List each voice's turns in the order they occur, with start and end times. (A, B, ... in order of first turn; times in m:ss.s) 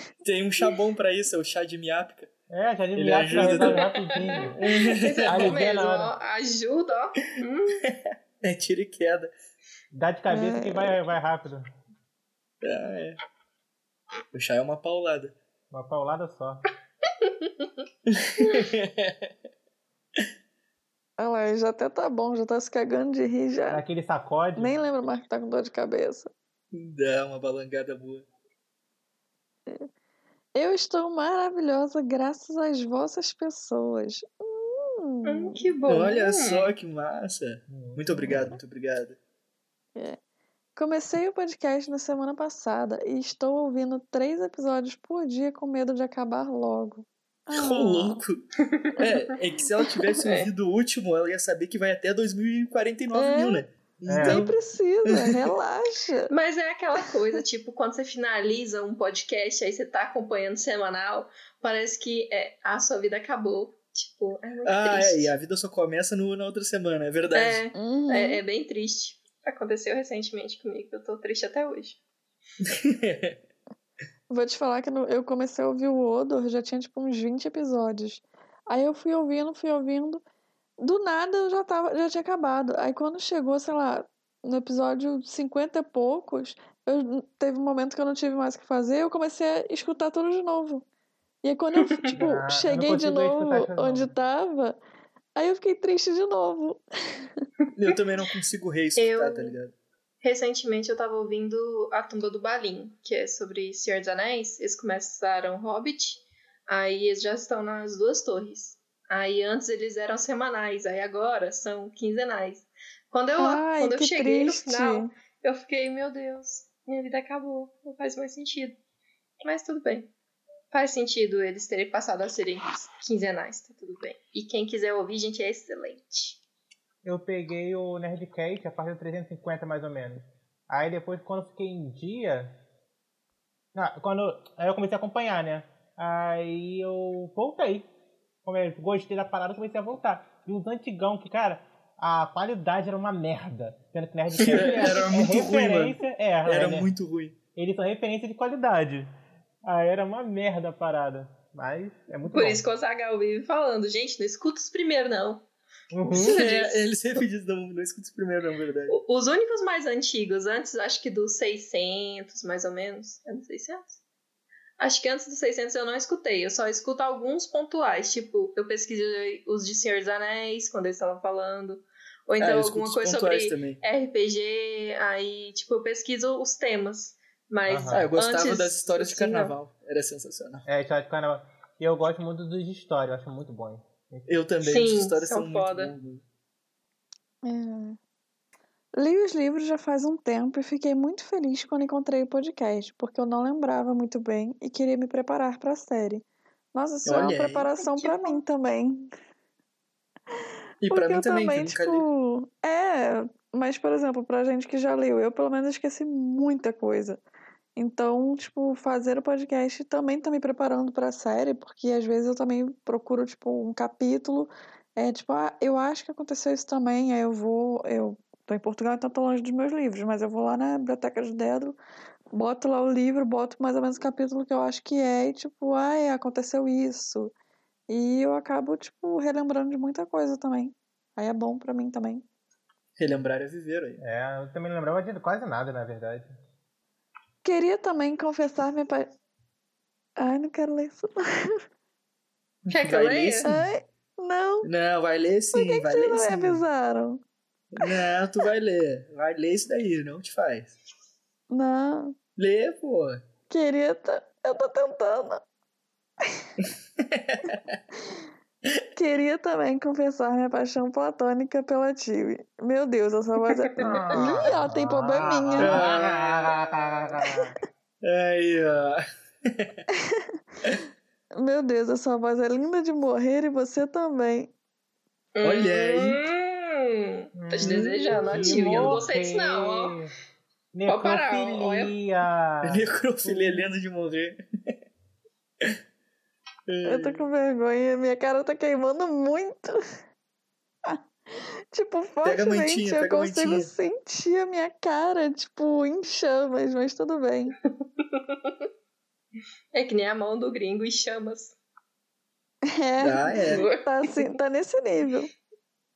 0:00.2-0:02.3 A
0:02.5-0:04.6 B
0:02.9-0:03.8 A
0:03.3-0:07.8 C
0:04.5-0:05.6 A
0:05.2-0:06.1 B
0:07.8-0:09.3 A
0:09.9-0:11.7 B
0:10.3-0:11.0 D
0:12.6-0:13.2 A
0:14.3-0:15.3 A
0:15.7-0:16.7 B
0:17.2-0:17.7 C
0:18.1-0:19.3 A
0:18.4-0:18.7 C
0:21.2-0:23.8 D
0:23.7-0:24.8 B
0:24.6-0:26.3 D
0:26.7-0:28.3 A
0:30.6-0:35.6 D
0:35.2-0:36.7 C
0:35.9-0:39.2 A
0:37.7-0:38.5 B
0:40.8-0:48.2 D
0:47.5-0:48.4 A
0:48.7-0:49.2 C
0:49.0-0:54.6 A
0:50.1-0:50.5 C
0:53.1-0:53.6 D
0:54.1-0:54.4 B
0:54.2-0:56.3 D
0:56.3-1:05.3 C
1:04.6-1:07.6 A
1:07.3-1:12.0 C
1:07.8-1:08.4 D
1:12.6-1:13.4 A
1:14.3-1:20.2 D
1:20.8-1:30.8 D
1:31.4-1:34.8 D
1:32.1-1:34.1 B
1:35.4-1:37.3 D
1:37.7-1:39.7 A
1:39.0-1:39.6 C
1:40.2-1:58.8 C
1:53.4-1:55.1 D
1:59.4-2:00.1 C
2:00.7-2:06.4 C
2:07.0-2:12.6 B
2:13.7-2:17.9 B
2:18.4-2:26.9 B
2:24.4-2:27.4 A
2:24.4-2:25.3 C
2:27.5-2:29.1 B
2:29.7-2:32.6 B
2:32.3-2:35.4 C
2:35.9-2:36.4 B
2:36.1-2:36.9 C
2:36.2-2:39.0 A
2:38.9-2:44.0 C
2:44.8-2:59.5 C
2:52.4-2:53.8 A
2:57.7-2:58.0 B
2:57.9-3:00.6 A
3:00.7-3:04.3 B
3:04.3-3:06.2 A
3:04.6-3:06.0 C
3:07.4-3:08.0 D
3:09.0-3:16.2 D
3:16.7-3:19.1 D
3:17.0-3:17.7 A
3:17.8-3:18.4 C
3:20.8-3:22.1 A
3:20.9-3:27.2 D
3:27.8-3:41.8 D
3:42.3-3:47.3 D
3:47.9-3:52.2 D
3:53.0-3:54.0 A
3:54.0-3:56.3 B
3:57.4-3:59.1 D
4:00.2-4:01.5 D
4:02.6-4:03.7 A
4:02.7-4:03.5 C
4:03.4-4:04.7 D
4:04.6-4:06.6 A
4:05.5-4:07.2 D
4:07.7-4:10.7 A
4:11.5-4:12.2 D
4:12.4-4:13.2 A
4:13.5-4:15.4 D
4:16.6-4:17.8 A
4:19.0-4:25.8 D
4:23.5-4:24.0 C
4:23.8-4:27.6 B
4:25.2-4:27.1 A
4:28.0-4:29.7 A
4:29.9-4:30.3 D
4:31.4-4:34.5 D
4:35.4-4:40.0 C
4:35.4-4:36.2 A
4:37.4-4:40.1 B
4:37.6-4:39.0 A
4:40.7-4:43.7 B
4:40.9-4:42.0 C
4:42.6-4:44.4 A
4:46.7-4:47.2 A
4:46.8-4:49.8 D
4:50.9-4:57.5 D
4:52.2-4:53.7 A
4:59.7-5:01.6 C
5:02.7-5:05.3 D
5:03.0-5:03.6 A
5:03.5-5:04.3 C